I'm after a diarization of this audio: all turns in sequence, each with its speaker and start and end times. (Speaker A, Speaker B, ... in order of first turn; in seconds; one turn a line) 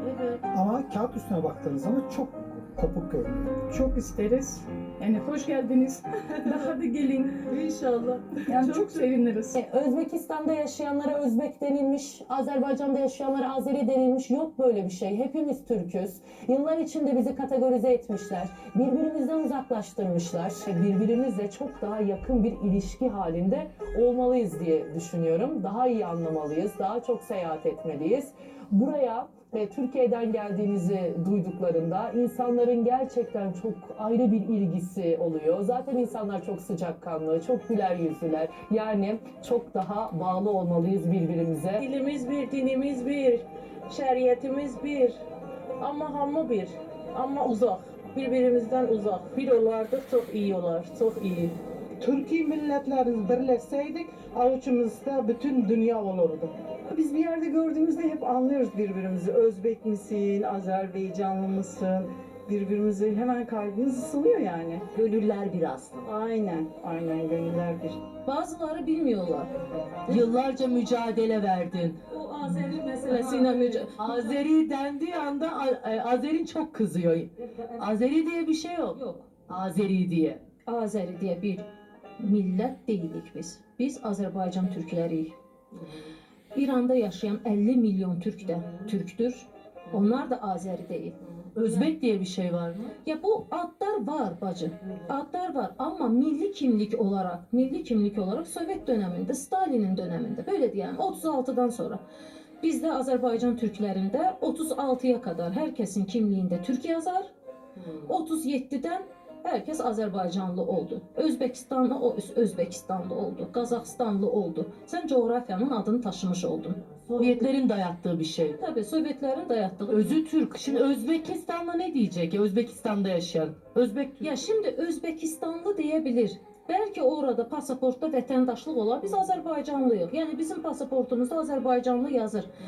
Speaker A: 0.5-3.4
Speaker B: 3.7-7.9
Speaker B: 8.4-9.6
Speaker C: 9.6-20.3
Speaker D: 20.9-21.4
Speaker C: 21.4-22.1
Speaker C: 23.1-24.0
Speaker C: 24.8-28.0
Speaker C: 28.7-30.1
Speaker C: 31.1-41.8
Speaker E: 41.8-45.2
Speaker E: 45.8-51.5
Speaker F: 52.0-64.8
Speaker D: 65.0-65.9
Speaker F: 66.0-68.0
Speaker G: 68.2-69.5
Speaker D: 70.1-72.0
Speaker G: 72.5-74.0
Speaker D: 72.5-80.4
Speaker G: 80.7-81.7
Speaker G: 82.2-85.3
Speaker G: 86.5-91.2
Speaker D: 91.5-92.9
Speaker G: 93.0-102.0
Speaker G: 102.6-107.3
Speaker G: 108.0-117.4
Speaker D: 117.1-118.6
Speaker G: 118.6-120.2
Speaker D: 119.9-124.3
Speaker G: 124.2-132.5